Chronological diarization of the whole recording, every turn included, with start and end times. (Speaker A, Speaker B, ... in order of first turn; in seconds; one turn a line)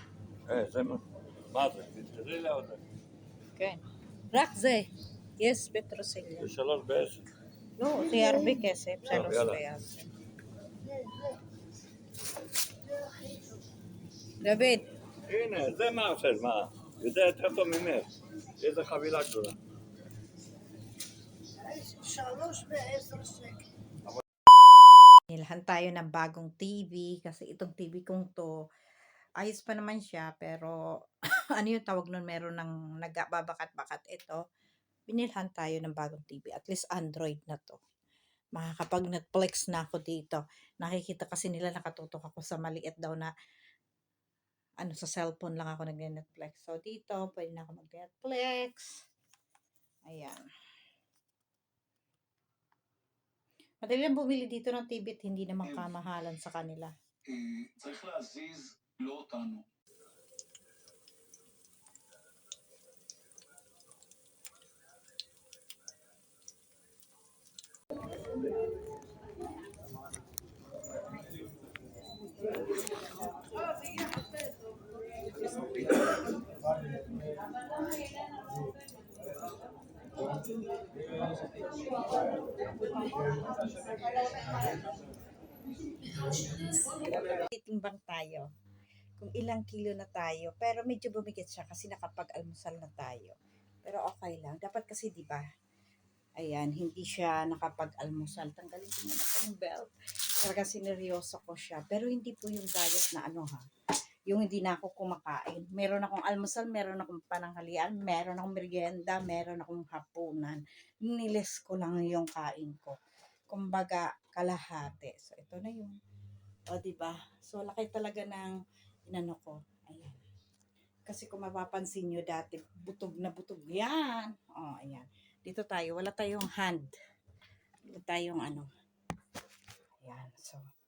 Speaker A: 0.5-2.8
Speaker B: 3.6-6.5
Speaker A: 6.4-7.3
Speaker B: 7.8-10.1
Speaker C: 7.9-9.3
Speaker A: 9.1-9.6
Speaker C: 10.8-11.4
Speaker C: 12.8-13.7
Speaker B: 14.4-14.9
Speaker A: 15.3-19.6
Speaker C: 21.6-23.6
Speaker B: 25.3-28.5
Speaker B: 29.4-30.8
Speaker B: 31.6-34.4
Speaker B: 35.1-37.8
Speaker B: 38.6-43.3
Speaker B: 44.8-49.0
Speaker B: 50.1-50.4
Speaker B: 53.8-56.9
Speaker D: 57.3-59.7
Speaker B: 87.2-88.5
Speaker B: 89.2-95.5
Speaker B: 96.4-103.7
Speaker B: 104.3-113.0
Speaker B: 113.5-116.0
Speaker B: 116.7-118.5
Speaker B: 119.1-120.2
Speaker B: 121.1-126.9
Speaker B: 127.9-128.7
Speaker B: 130.0-130.7